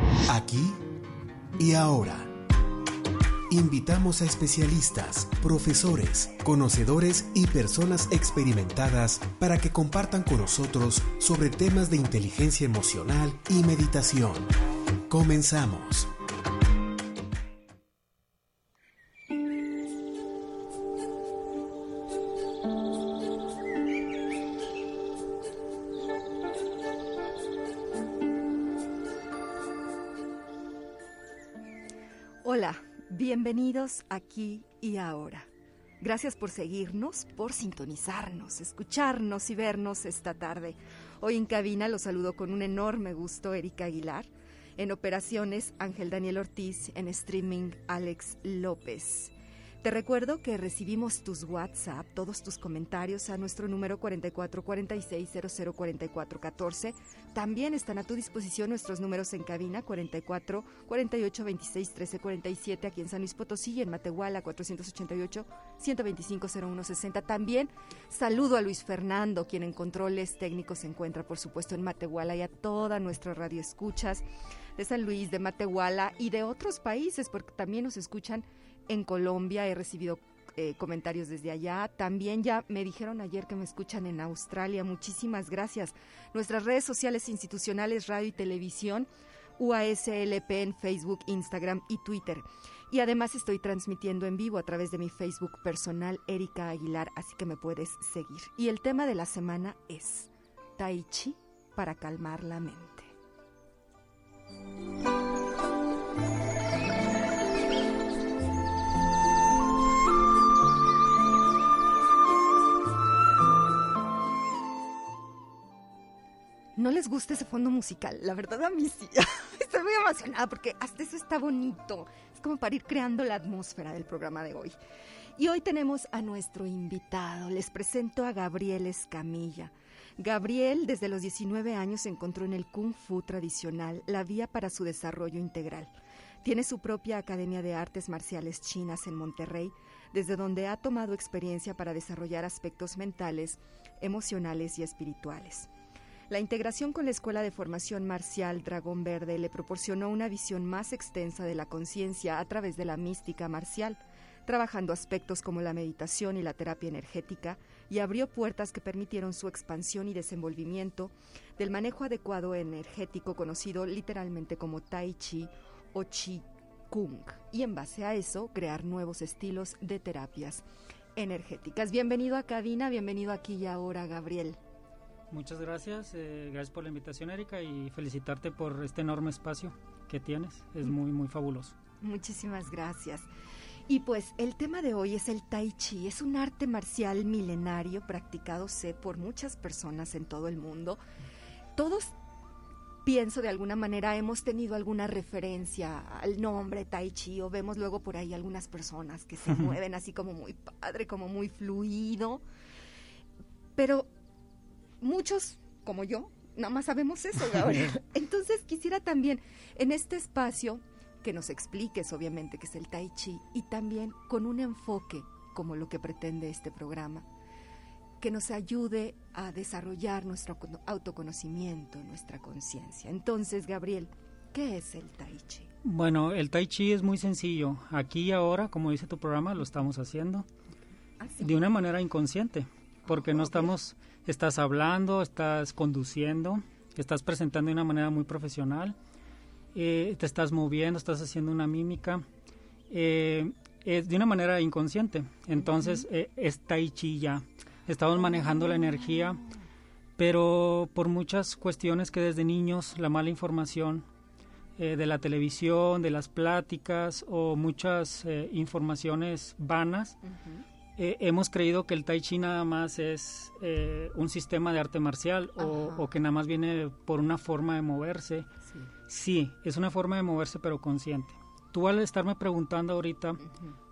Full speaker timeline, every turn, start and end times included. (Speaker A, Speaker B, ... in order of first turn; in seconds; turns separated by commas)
Speaker A: 0.3-0.8, Speaker A: 1.6-2.3, Speaker A: 3.5-14.5, Speaker A: 15.1-16.1, Speaker B: 32.4-35.5, Speaker B: 36.0-74.2, Speaker B: 74.8-103.1, Speaker B: 116.8-124.8, Speaker B: 125.4-135.9, Speaker B: 136.4-145.7, Speaker B: 146.3-170.6, Speaker B: 171.2-174.6, Speaker C: 175.3-181.7, Speaker B: 182.0-183.3, Speaker B: 183.9-191.0, Speaker B: 191.8-192.1, Speaker B: 193.1-202.4, Speaker B: 203.8-204.1, Speaker B: 205.0-217.3, Speaker B: 218.2-225.7, Speaker C: 225.8-230.5, Speaker B: 231.2-231.5, Speaker C: 231.4-238.9, Speaker B: 233.1-233.7, Speaker C: 239.7-242.2, Speaker C: 242.9-249.4, Speaker B: 245.6-246.0, Speaker B: 248.2-249.6, Speaker C: 250.2-254.0, Speaker C: 254.8-260.2, Speaker B: 260.2-260.6, Speaker C: 261.0-268.5, Speaker B: 265.6-266.1, Speaker C: 269.1-273.4, Speaker B: 273.5-273.7